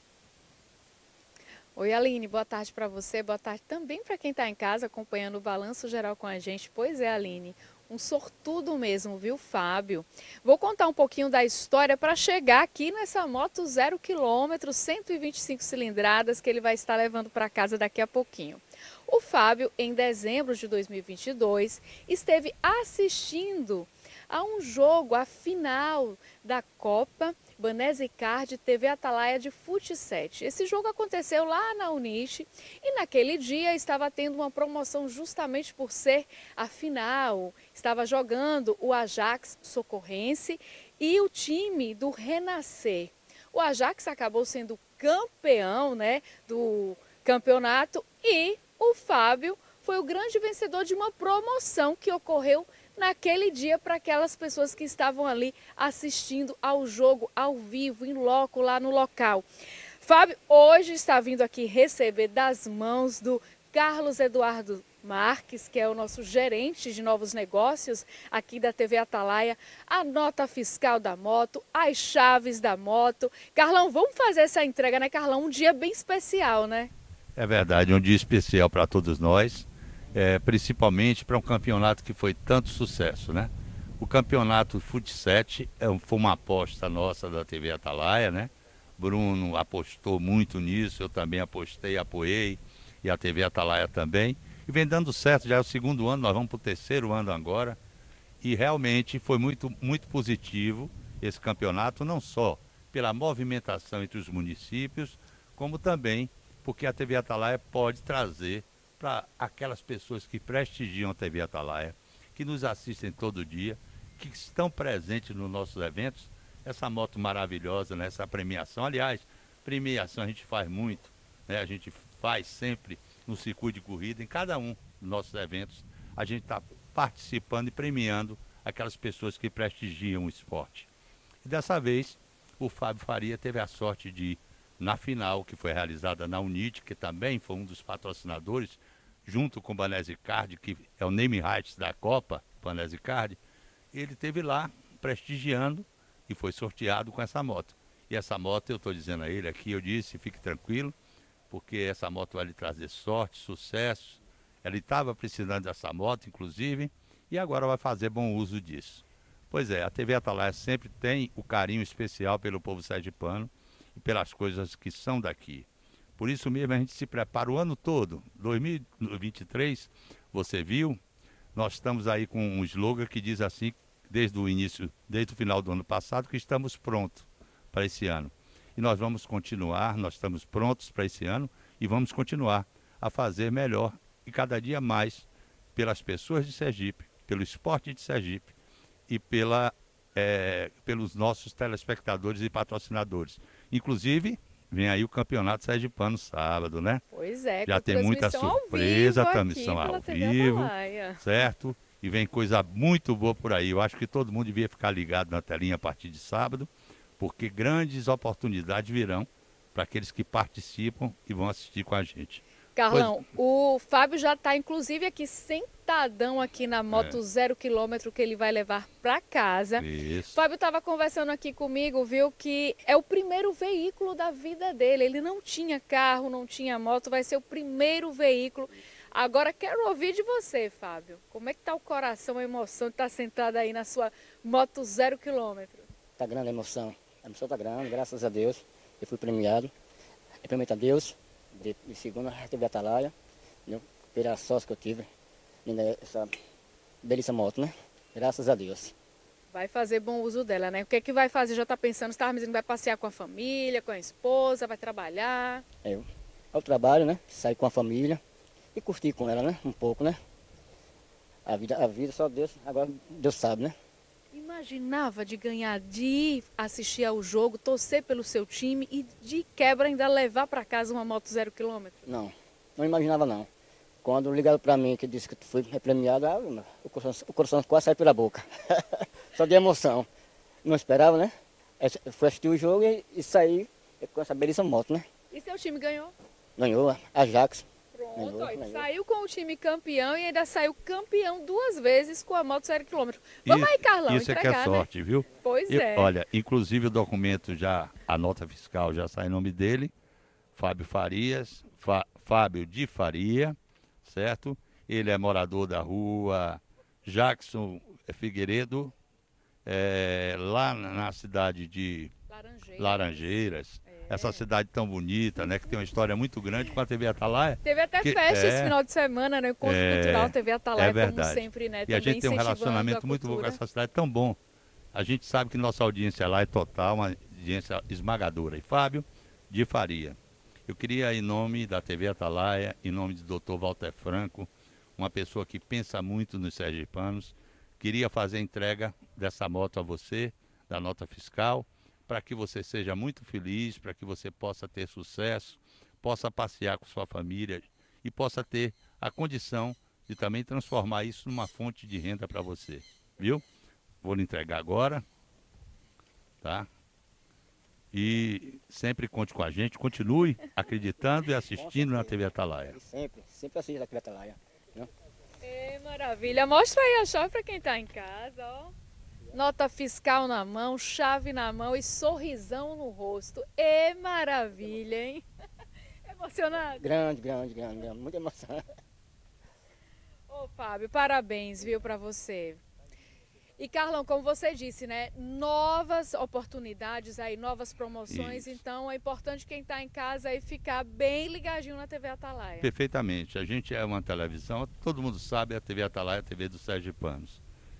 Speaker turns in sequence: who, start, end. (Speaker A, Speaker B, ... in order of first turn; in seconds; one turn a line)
Speaker A: 1.8-59.5
Speaker A: 60.0-76.9
Speaker B: 77.4-97.8
Speaker B: 98.4-130.9
Speaker B: 131.4-143.4
Speaker B: 143.9-151.0
Speaker B: 151.5-171.0
Speaker B: 171.6-188.5
Speaker B: 189.1-197.0
Speaker A: 197.1-201.2
Speaker B: 197.7-213.2
Speaker A: 212.8-235.9
Speaker B: 216.9-217.2
Speaker B: 219.8-220.4
Speaker C: 236.2-239.7
Speaker C: 240.4-243.1
Speaker C: 243.7-245.1
Speaker C: 245.6-246.3
Speaker C: 247.0-248.9
Speaker A: 249.5-255.6
Speaker C: 255.8-258.2
Speaker C: 258.8-260.2
Speaker C: 261.4-263.8
Speaker A: 264.3-272.0
Speaker C: 272.1-273.5
Speaker C: 274.0-280.1
Speaker C: 280.6-285.1
Speaker A: 285.3-286.1
Speaker C: 286.6-288.9
Speaker A: 287.9-296.1
Speaker B: 293.4-299.9
Speaker B: 300.6-308.9
Speaker B: 309.6-312.1
Speaker A: 312.3-314.5
Speaker B: 312.8-318.8
Speaker A: 317.6-323.6
Speaker B: 319.6-324.4
Speaker B: 324.9-353.4
Speaker B: 354.0-355.1
Speaker B: 356.4-356.7
Speaker B: 357.9-362.8
Speaker C: 361.5-362.2
Speaker C: 362.7-364.9
Speaker A: 365.4-368.7
Speaker A: 369.3-375.2
Speaker A: 376.1-376.9
Speaker C: 376.8-378.6
Speaker A: 380.3-382.6
Speaker A: 383.6-392.7
Speaker B: 388.1-388.6
Speaker B: 392.6-397.4